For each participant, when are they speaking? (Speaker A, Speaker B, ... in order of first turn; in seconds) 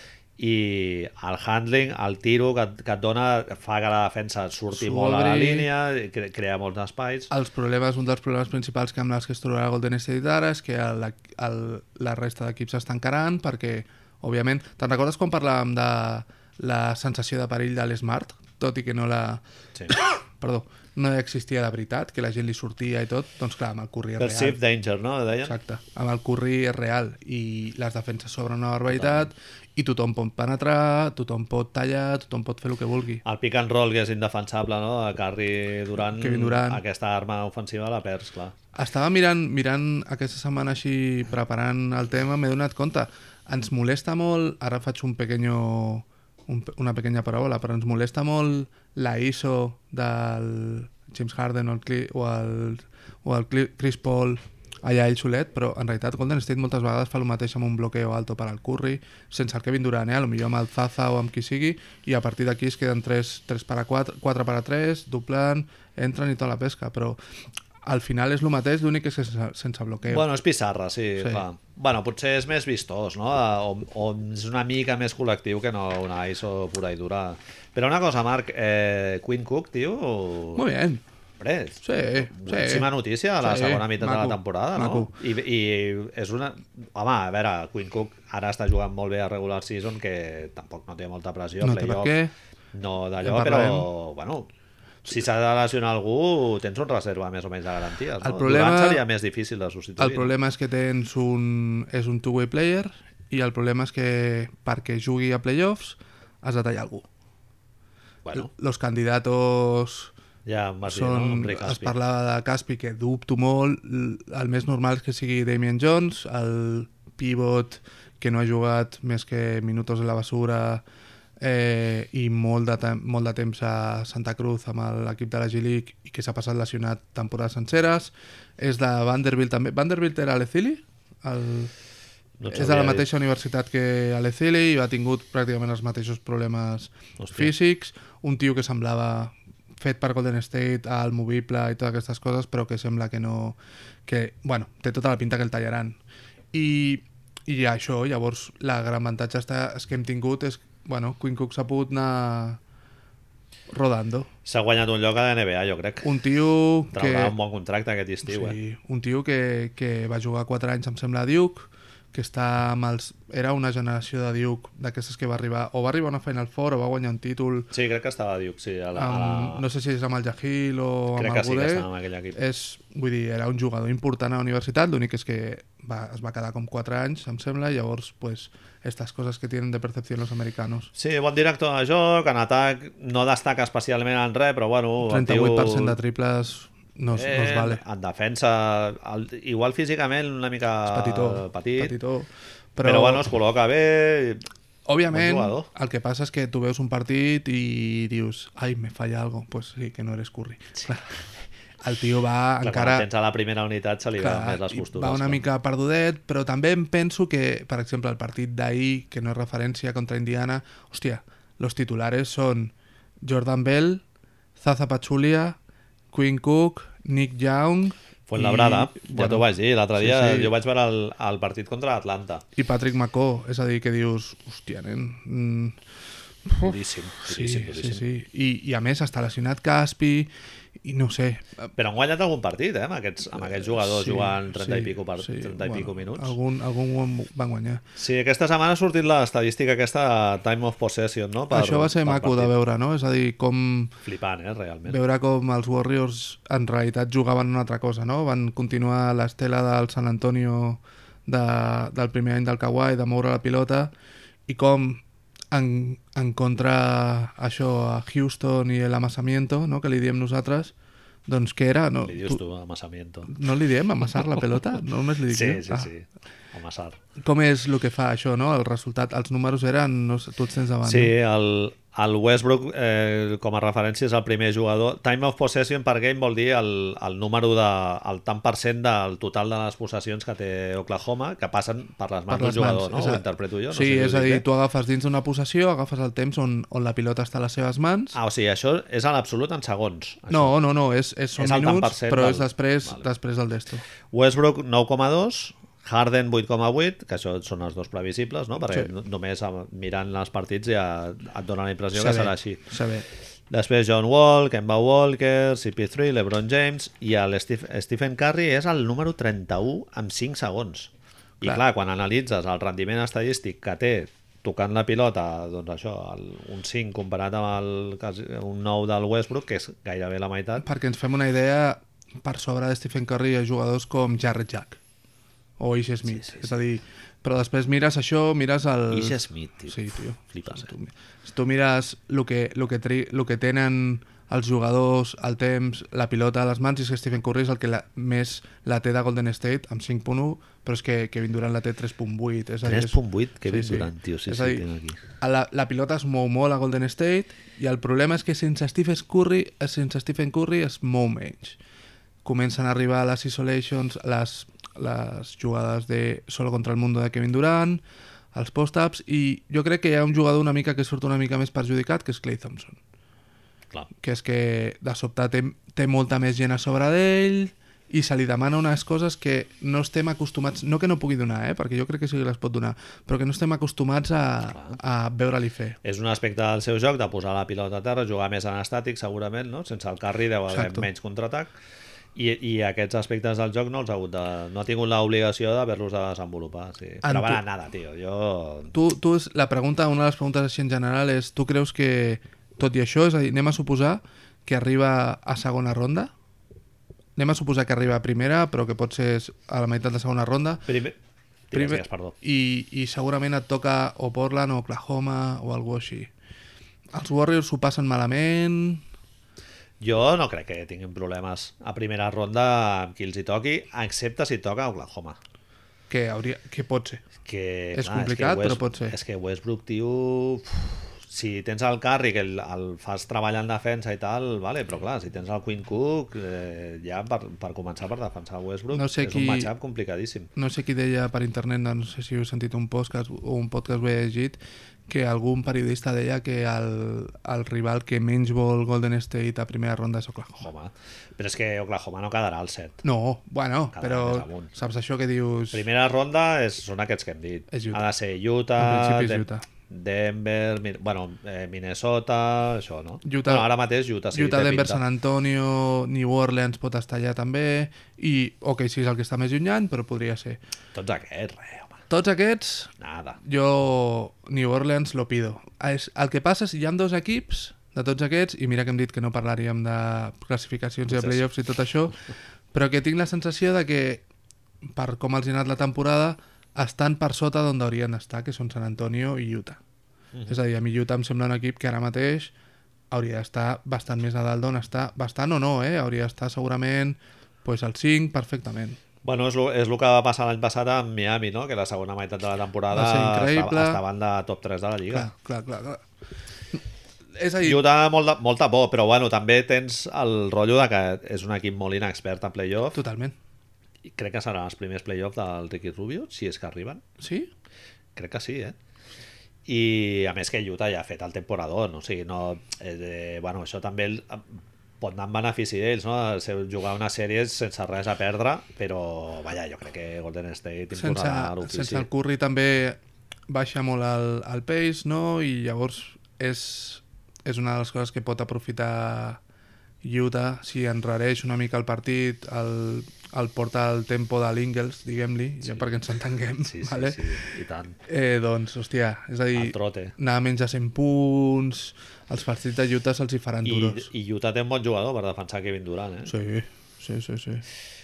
Speaker A: 0.4-7.3, 24.2-25.6, 28.9-29.3, 33.2-38.5, 70.1-80.6, 81.4-92.1, 92.7-94.5, 95.1-100.3, 108.2-108.5, 110.5-112.0, 132.4-133.1, 137.2-137.5, 154.4-156.1, 156.9-158.6, 167.7-169.6, 171.2-172.4, 180.9-186.0, 187.1-191.9, 192.8-194.4, 195.1-195.7, 202.6-205.4, 218.3-222.4, 226.6-228.0, 231.8-236.4, 238.0-242.5, 244.0-245.0, 262.0-263.3, 265.3-267.0, 270.8-284.5, 288.1-290.6, 291.4-293.1, 294.1-302.6, 303.5-320.6, 326.1-326.5, 328.9-330.7, 342.6-345.0, 375.8-381.5, 382.1-388.7, 400.7-401.0, 401.5-402.2, 409.8-415.2, 417.3-430.3, 440.4-442.8, 443.7-444.5, 445.5-454.8, 460.7-461.8, 462.8-463.2, 470.9-471.2, 489.0-495.1, 497.4-502.8, 503.8-506.8, 507.9-508.6, 509.5-521.9, 536.4-537.8, 539.3-539.9, 543.4-546.1
Speaker B: 4.7-5.7, 7.3-24.6, 25.4-33.2, 36.1-36.8, 38.8-67.2, 67.8-70.2, 80.6-81.0, 81.8-85.1, 91.6-92.3, 93.2-93.9, 98.2-99.0, 100.0-107.1, 108.3-110.1, 110.8-120.8, 121.4-131.7, 132.5-146.0, 146.5-152.6, 153.7-154.3, 156.0-157.3, 158.2-167.7, 169.0-180.9, 185.0-187.8, 190.9-193.3, 194.9-203.1, 204.2-214.0, 214.6-215.6, 216.1-220.5, 222.6-225.8, 226.5-230.3, 230.8-231.7, 233.4-237.8, 241.5-243.9, 244.9-253.9, 254.5-260.7, 261.3-262.4, 263.3-265.9, 267.2-271.1, 282.3-288.2, 290.3-293.8, 301.9-303.1, 320.6-324.8, 325.6-344.6, 345.2-351.6, 352.2-362.8, 364.0-375.8, 380.5-380.9, 387.0-387.4, 388.7-396.1, 397.2-400.7, 401.5-406.1, 406.9-408.8, 415.9-417.0, 417.7-418.9, 428.7-429.5, 430.4-434.4, 434.9-440.5, 442.8-445.6, 447.5-447.9, 448.6-449.4, 453.0-453.5, 454.1-460.4, 461.9-472.0, 472.5-474.0, 474.8-479.6, 480.3-482.3, 482.9-488.8, 492.7-493.8, 494.9-495.8, 497.2-497.6, 502.7-503.1, 507.0-507.3, 520.7-529.2, 529.8-537.3, 537.9-543.9, 546.1-547.5